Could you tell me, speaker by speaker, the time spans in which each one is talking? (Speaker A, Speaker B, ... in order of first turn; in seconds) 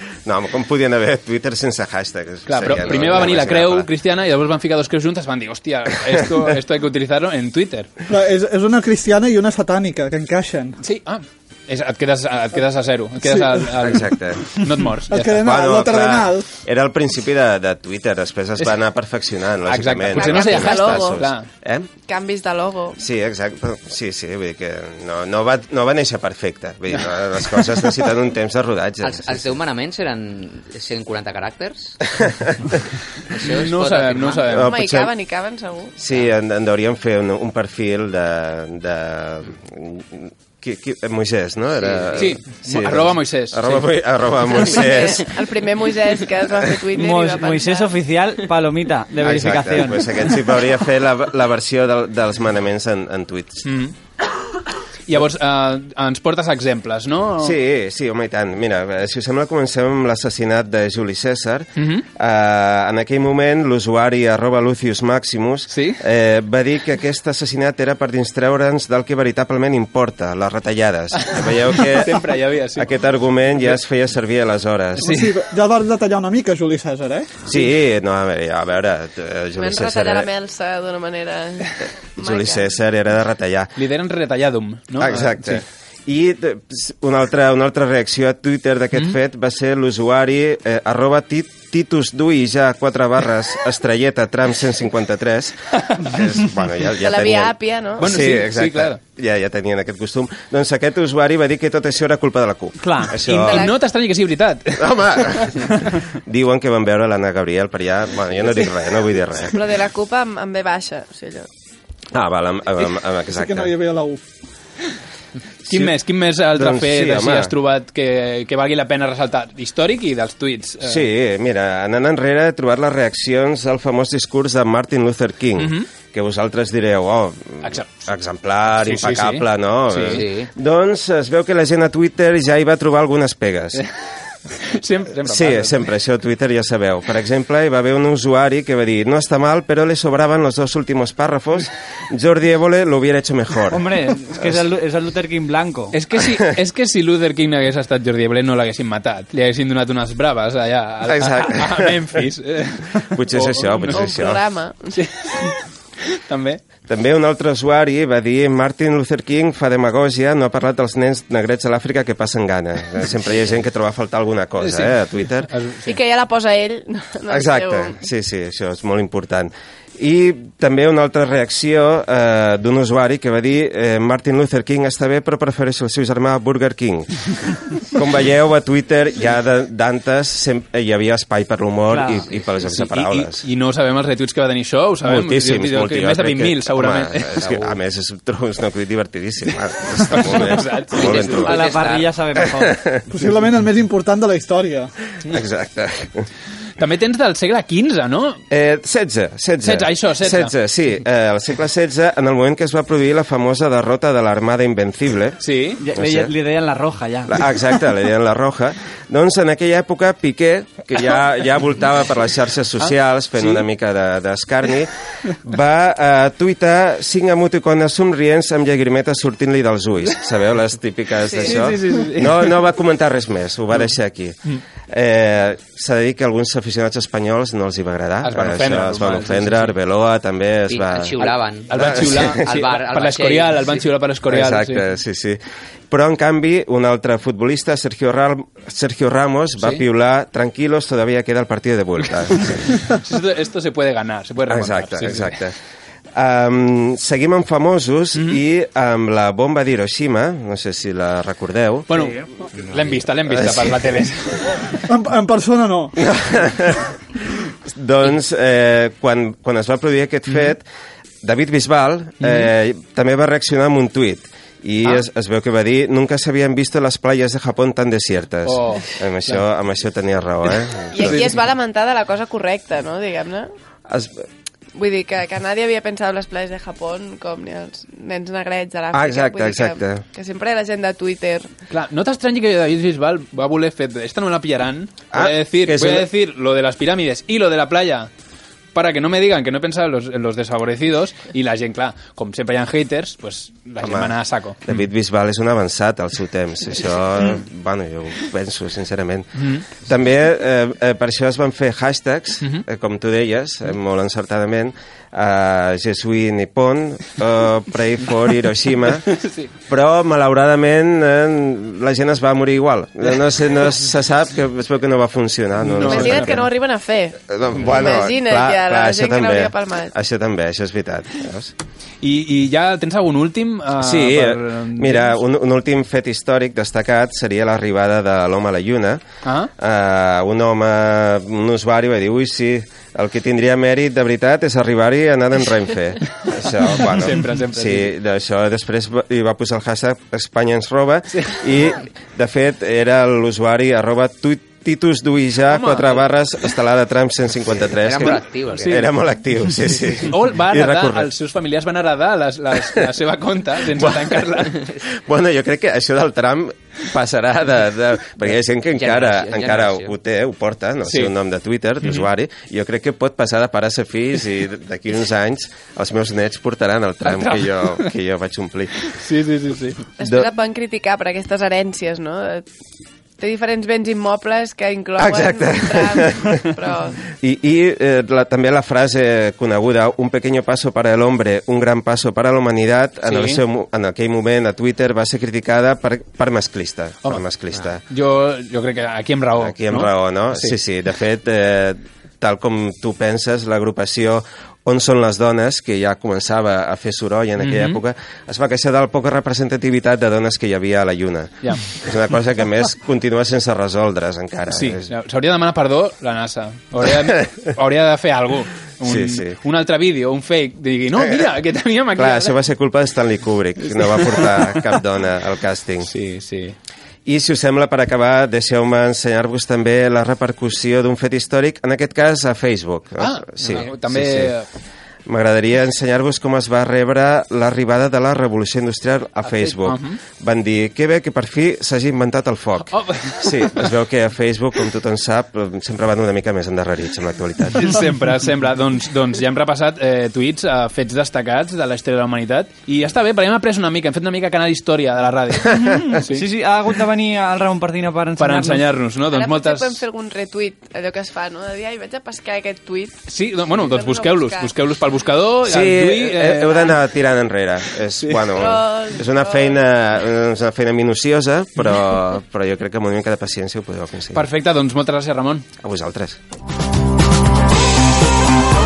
Speaker A: 0.2-3.9, 13.8-14.6, 15.4-21.9, 23.0-29.6, 32.2-32.6, 34.5-35.1, 36.0-45.3, 49.2-53.7, 57.4-75.2, 77.5-80.3, 82.2-83.7, 85.0-103.7, 104.8-109.6, 112.1-113.7, 115.7-115.9, 116.5-117.5, 120.8-133.8, 135.2-143.8, 151.1-151.9, 153.0-154.4, 156.9-165.5, 167.3-183.4, 185.0-191.7, 192.3-193.1, 195.3-196.3, 198.5-205.4, 205.9-206.3, 207.3-224.4, 224.9-232.6, 234.3-235.4, 235.9-242.9, 244.5-245.6, 246.2-252.1, 253.3-254.0, 256.0-256.9, 257.6-260.6, 261.2-271.3, 273.9-274.2, 278.9-280.0, 285.1-286.1, 293.8-309.2, 309.7-316.5, 317.2-321.5, 323.8-329.0, 329.6-351.1, 353.7-368.9, 370.0-370.3, 375.0-376.5, 377.1-387.8, 389.4-404.9, 406.8-407.2, 408.8-409.3, 412.0-415.9, 417.1-424.3, 425.1-437.8, 455.4-464.2, 465.6-466.2
Speaker B: 2.5-7.9, 10.8-15.4, 19.7-21.5, 33.4-34.8, 42.1-43.9, 53.7-53.9, 55.1-57.6, 61.8-62.0, 65.7-66.0, 71.2-72.9, 75.0-75.3, 83.8-85.6, 98.0-99.0, 103.2-105.8, 115.7-121.0, 125.6-125.9, 127.6-127.9, 128.8-130.2, 134.6-135.9, 145.9-154.3, 154.9-156.6, 164.6-166.0, 182.6-187.6, 190.1-191.4, 196.8-198.4, 199.6-200.5, 205.4-205.8, 212.8-213.7, 221.4-222.6, 228.2-229.7, 231.2-234.8, 242.4-245.4, 248.2-248.4, 251.9-254.8, 262.2-262.5, 268.4-269.4, 271.0-271.4, 281.7-288.1, 288.8-294.9, 296.8-297.4, 299.4-299.6, 309.1-309.5, 315.6-316.4, 322.0-325.2, 329.2-329.5, 336.7-337.9, 345.5-346.1, 350.0-354.6, 360.9-361.1, 367.0-367.9, 368.9-369.8, 383.1-383.4, 387.9-390.6, 397.4-397.8, 404.5-412.4, 413.6-414.8, 415.8-416.6, 423.0-424.5, 429.2-430.0, 432.7-433.7, 437.6-446.2, 448.2-449.8, 453.1-456.8, 458.0-458.3, 464.1-465.5
Speaker C: 8.1-10.8, 13.3-13.7, 15.1-16.5, 75.0-77.3, 113.3-114.2, 193.1-194.9, 254.9-256.0
Speaker D: 20.1-21.2, 22.1-23.0, 34.6-36.0, 44.5-47.9, 79.6-82.7, 97.0-98.2, 103.3-103.7, 109.5-111.5, 153.9-155.0, 165.8-168.0, 221.3-221.6, 270.9-273.5, 274.8-281.5, 315.8-317.2, 317.7-319.9, 370.0-372.5, 373.2-377.0, 449.1-453.0, 453.5-454.5, 458.3-459.6
Speaker E: 29.0-32.0, 33.3-34.5, 41.8-42.4, 130.1-130.5, 187.4-187.7, 190.9-192.1, 230.7-233.8, 347.8-348.9, 358.8-359.9, 423.4-423.7
Speaker F: 46.9-50.1, 102.8-103.2, 143.7-146.0, 181.9-182.3, 191.4-192.8, 205.8-207.5, 445.6-448.6